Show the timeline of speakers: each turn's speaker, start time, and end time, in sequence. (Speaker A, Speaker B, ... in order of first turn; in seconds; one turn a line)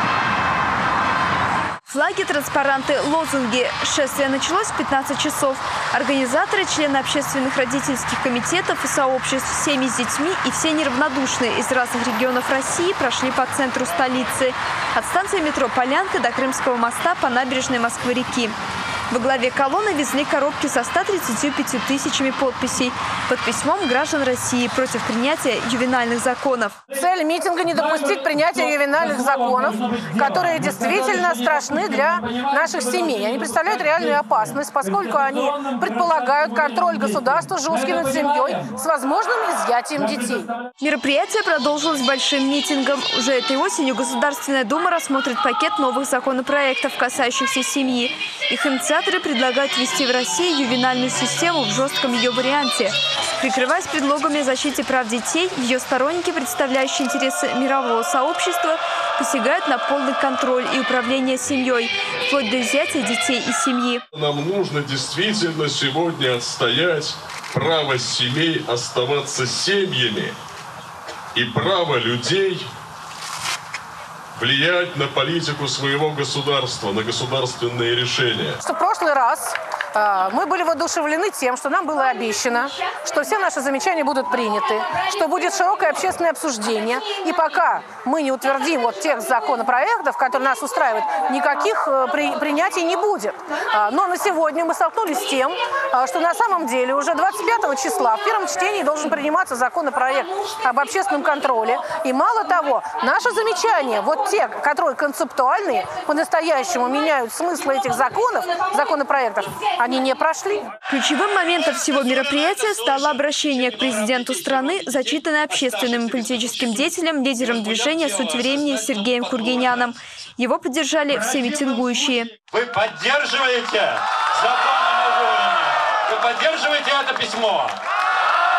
Speaker A: 1.9-18.6
Speaker A: 19.1-26.8
Speaker B: 26.9-40.5
Speaker A: 40.8-64.0
Speaker C: 64.1-70.3
Speaker C: 71.3-72.7
Speaker C: 74.4-78.6
Speaker B: 78.6-110.7
Speaker A: 110.9-122.3
Speaker D: 112.2-119.8
Speaker D: 122.5-127.8